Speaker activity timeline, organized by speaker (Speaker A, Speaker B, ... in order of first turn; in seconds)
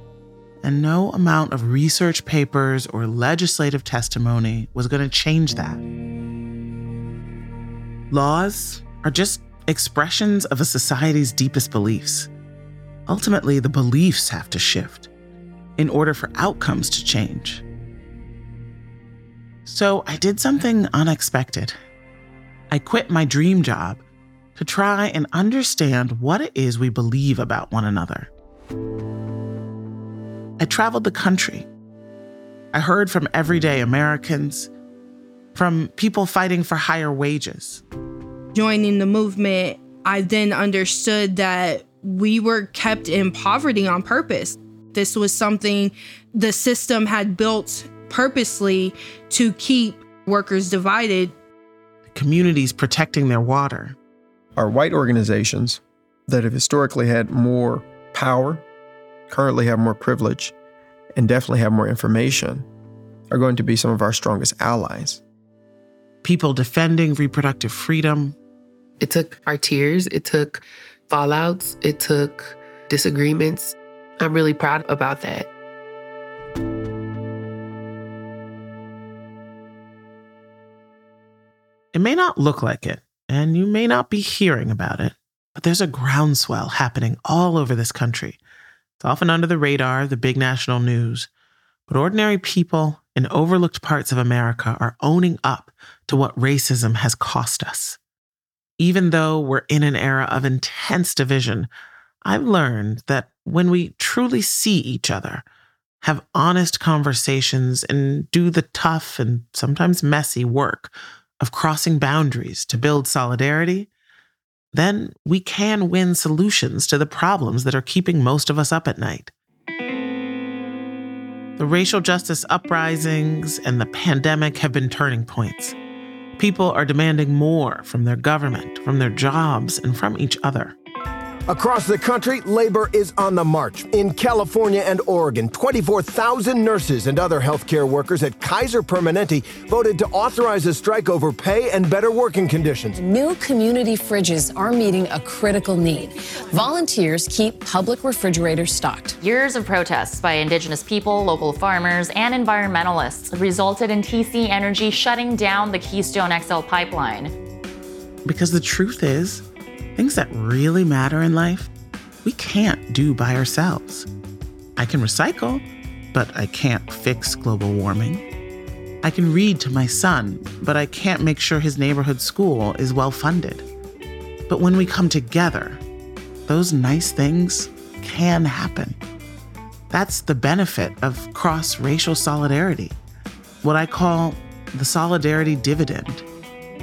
Speaker A: 0.6-5.8, 8.1-12.3, 13.1-15.1, 15.8-17.6, 19.7-21.8, 22.7-24.0, 24.6-28.3, 30.6-31.7, 32.7-34.7, 35.5-37.8, 52.1-54.0, 66.2-68.4, 81.9-88.4, 89.0-91.3, 91.9-98.0, 98.8-101.7, 102.2-105.4, 106.0-113.9, 114.7-119.3, 121.6-125.8, 126.4-130.8, 158.2-159.4, 160.0-161.7, 162.2-164.1, 164.8-168.2, 169.0-173.7, 174.5-175.8, 176.5-179.0, 179.9-183.0, 183.6-186.2
Speaker B: 38.5-51.3
Speaker C: 54.6-58.6, 59.3-60.5, 61.1-62.7, 63.3-65.2
Speaker D: 69.0-75.5
Speaker E: 131.5-142.9
Speaker F: 143.0-149.2
Speaker G: 149.2-157.3